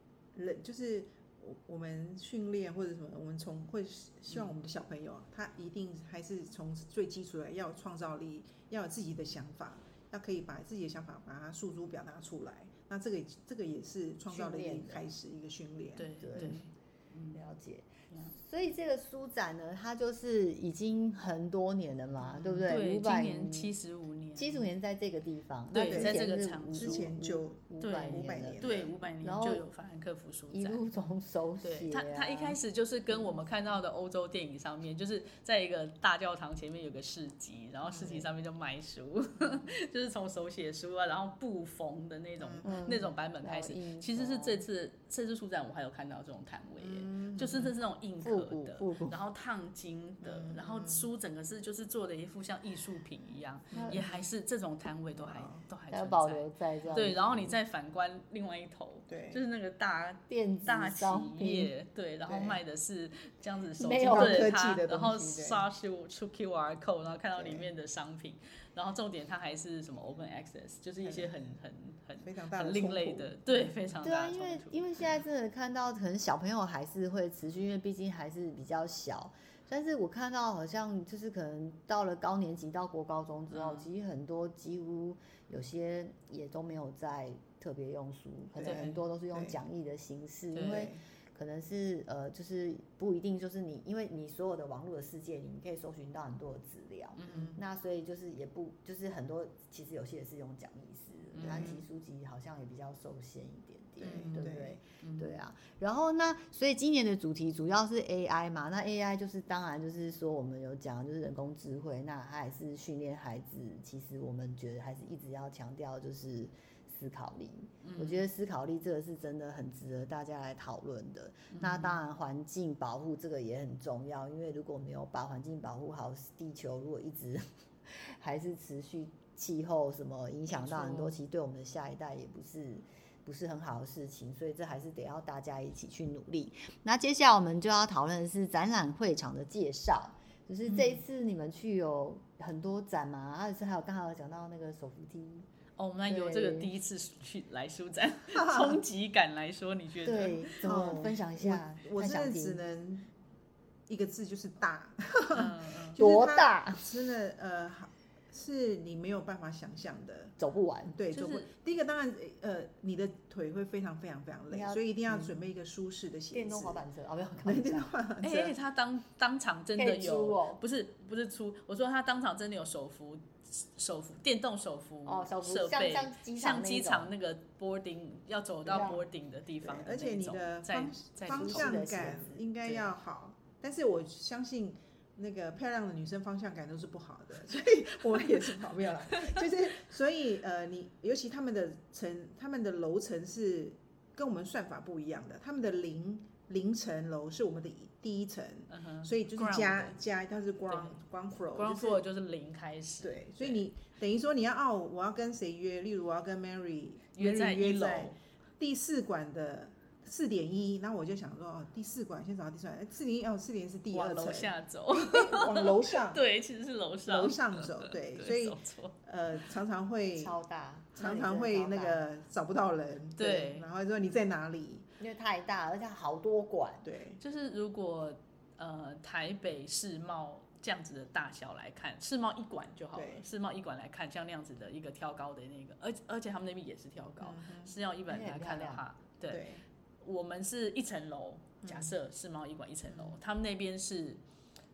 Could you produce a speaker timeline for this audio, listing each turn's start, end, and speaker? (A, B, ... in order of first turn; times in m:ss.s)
0:00.4-0:16.6 A
0:14.3-0:15.0 B
0:16.0-0:17.4 C
0:16.2-0:16.6 B
0:17.3-0:23.7 B
0:22.3-0:24.7 C
0:24.4-0:28.6 B
0:25.7-0:27.1 C
0:25.8-0:28.9 A
0:27.8-0:30.8 C
0:29.2-0:29.6 B
0:30.5-0:32.6 B
0:31.6-1:14.8 C
0:38.0-0:38.3 B
0:42.4-0:42.8 A
0:42.6-0:44.6 B
0:46.8-0:47.7 A
0:48.2-0:49.2 B
0:50.2-0:51.1 A
0:53.7-0:54.2 A
0:53.7-0:54.1 B
0:55.2-0:55.6 A
0:55.9-0:57.6 B
0:59.1-0:59.4 A
1:00.3-1:01.7 B
1:03.8-1:04.6 B
1:04.1-1:05.7 A
1:11.0-1:11.5 A
1:12.2-1:13.7 A
1:14.0-2:25.5 B
1:23.5-1:23.9 C
1:28.6-1:29.6 A
1:28.6-1:29.0 C
1:30.5-1:30.9 C
1:30.7-1:31.0 A
1:37.2-1:37.6 C
1:37.3-1:37.6 A
1:41.3-1:41.8 C
1:41.4-1:41.7 A
1:44.0-1:44.8 A
1:44.1-1:44.4 C
1:45.0-1:45.4 C
1:57.8-1:58.2 C
2:01.5-2:02.0 C
2:10.5-2:11.2 C
2:20.7-2:21.0 C
2:25.8-2:30.6 C
2:26.1-2:26.7 B
2:28.3-2:28.8 A
2:30.0-2:32.6 B
2:30.6-2:33.1 A
2:33.9-2:40.4 A
2:35.3-2:36.0 C
2:36.0-2:37.0 B
2:40.4-2:41.0 B
2:40.9-2:46.8 A
2:41.1-2:41.5 C
2:44.5-2:45.4 B
2:46.3-2:47.9 B
2:47.4-2:48.6 A
2:48.2-3:01.8 C
2:49.8-2:50.6 B
2:55.1-2:57.1 B
2:58.7-2:59.0 B
2:59.6-3:22.0 A
3:01.3-3:02.4 B
3:09.2-3:09.4 C
3:18.7-3:20.0 C
3:20.7-3:21.0 C
3:21.6-3:23.6 C
3:23.0-3:36.2 A
3:27.2-3:28.2 C
3:33.9-3:39.0 C
3:37.1-3:40.4 A
3:40.2-3:42.0 B
3:41.0-3:44.9 A
3:43.2-3:43.7 C
3:45.0-3:46.8 B
3:46.8-3:47.2 A
3:47.2-3:59.5 C
3:53.0-3:53.3 A
3:57.2-3:57.7 A
3:58.1-3:58.8 B
3:59.3-3:59.6 A
4:00.0-4:04.2 C
4:01.6-4:02.0 A
4:02.9-4:03.2 A